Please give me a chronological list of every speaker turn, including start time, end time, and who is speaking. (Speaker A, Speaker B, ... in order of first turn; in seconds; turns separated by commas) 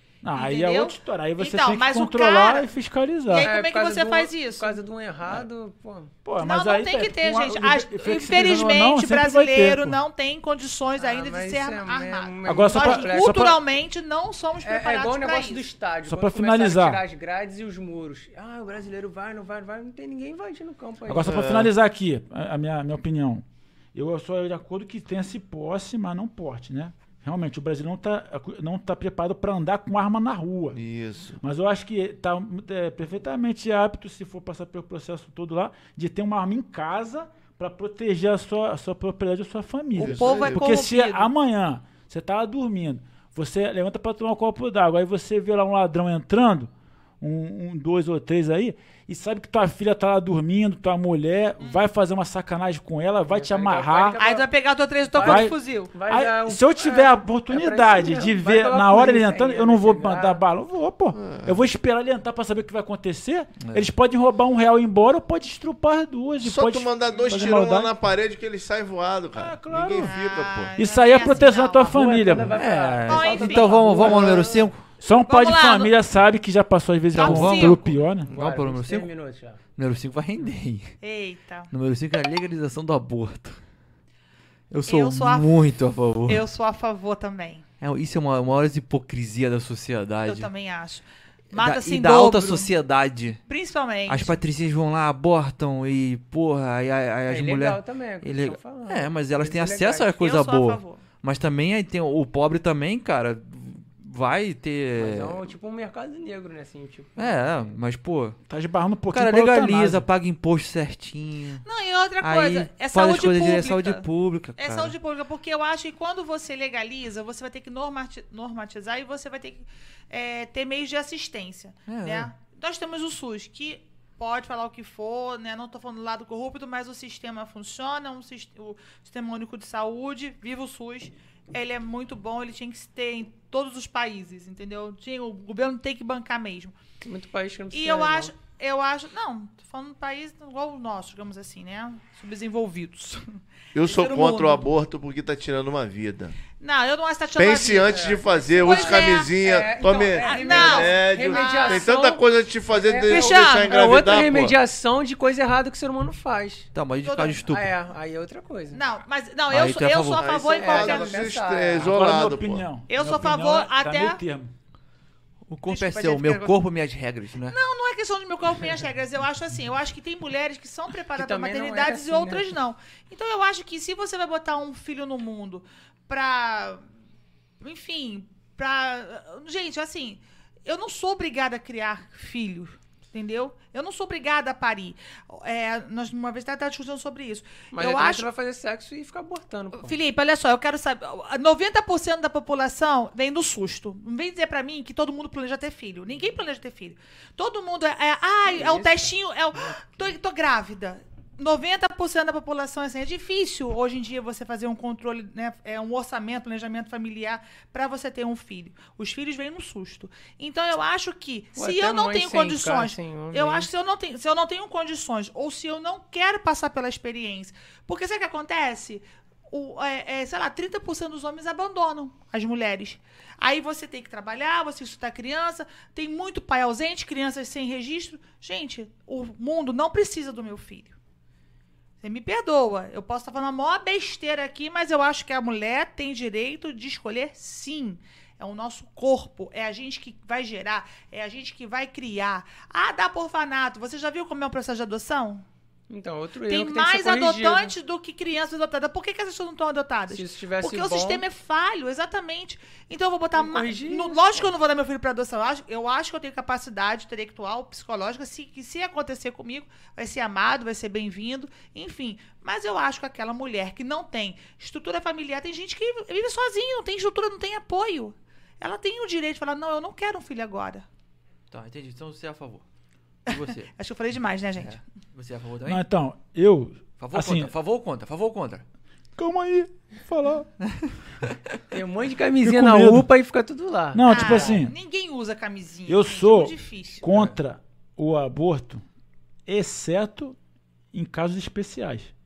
Speaker A: 0.2-3.5, Speaker B: 0.3-2.7, Speaker B: 3.3-4.8, Speaker C: 3.4-6.1, Speaker A: 6.2-10.0, Speaker B: 6.4-15.7, Speaker C: 11.0-13.5, Speaker A: 12.4-13.6, Speaker C: 14.6-21.4, Speaker A: 16.1-17.0, Speaker A: 21.1-30.8, Speaker D: 21.2-21.7, Speaker D: 30.7-31.4, Speaker A: 31.4-54.2, Speaker B: 40.0-41.3, Speaker D: 40.0-40.6, Speaker B: 51.6-51.9, Speaker C: 53.3-54.5, Speaker B: 54.2-55.9, Speaker C: 55.1-60.4, Speaker A: 55.2-67.9, Speaker D: 61.2-61.6, Speaker E: 63.6-63.9, Speaker D: 66.4-70.7, Speaker A: 69.3-70.1, Speaker B: 70.0-72.0, Speaker A: 70.8-72.6, Speaker C: 71.8-74.7, Speaker E: 72.5-74.9, Speaker B: 73.1-74.0, Speaker D: 74.0-74.5, Speaker A: 75.0-78.3, Speaker B: 75.2-75.9, Speaker B: 77.2-77.8, Speaker E: 77.2-79.1, Speaker C: 78.2-79.6, Speaker E: 79.8-81.0, Speaker B: 81.0-81.7, Speaker E: 81.7-83.6, Speaker E: 84.7-86.5, Speaker B: 84.9-85.5, Speaker B: 86.3-87.6, Speaker E: 87.8-90.5, Speaker B: 90.2-92.7, Speaker E: 91.5-93.4, Speaker B: 93.5-94.4, Speaker E: 94.1-105.5, Speaker C: 97.3-100.1, Speaker B: 100.2-101.0, Speaker C: 105.0-107.6, Speaker E: 107.2-108.4, Speaker A: 108.5-110.1, Speaker E: 109.1-111.7, Speaker B: 111.6-114.1, Speaker E: 112.2-115.0, Speaker B: 114.6-136.8, Speaker E: 121.9-122.3, Speaker C: 137.0-138.3, Speaker B: 137.7-144.7, Speaker D: 143.7-146.4, Speaker B: 146.6-149.3, Speaker D: 147.4-154.6, Speaker C: 147.9-156.7, Speaker B: 150.2-151.9, Speaker B: 153.1-153.9, Speaker E: 156.7-157.8, Speaker B: 157.0-157.4, Speaker C: 157.4-158.8, Speaker B: 158.7-161.3, Speaker E: 159.5-160.3, Speaker D: 160.2-162.7, Speaker C: 160.4-162.1, Speaker A: 161.8-164.5, Speaker B: 162.9-164.2, Speaker E: 165.5-167.6, Speaker B: 165.7-166.6, Speaker B: 167.5-176.8, Speaker C: 171.2-172.5, Speaker B: 177.6-188.3, Speaker C: 187.7-189.9, Speaker B: 189.8-231.0, Speaker C: 198.4-199.1, Speaker C: 211.6-213.7, Speaker B: 232.0-245.4, Speaker C: 245.9-247.7, Speaker B: 246.5-270.9, Speaker C: 250.1-251.2, Speaker C: 253.3-254.5, Speaker E: 271.5-272.6, Speaker E: 273.3-273.7, Speaker B: 273.3-274.8, Speaker E: 274.6-275.8, Speaker A: 275.6-277.5, Speaker E: 277.0-278.6, Speaker A: 279.2-280.5, Speaker E: 280.7-281.6, Speaker C: 281.7-284.6, Speaker A: 282.4-283.1, Speaker A: 283.9-284.7, Speaker B: 284.1-287.1, Speaker A: 285.9-288.8, Speaker A: 289.5-290.4, Speaker A: 290.9-292.1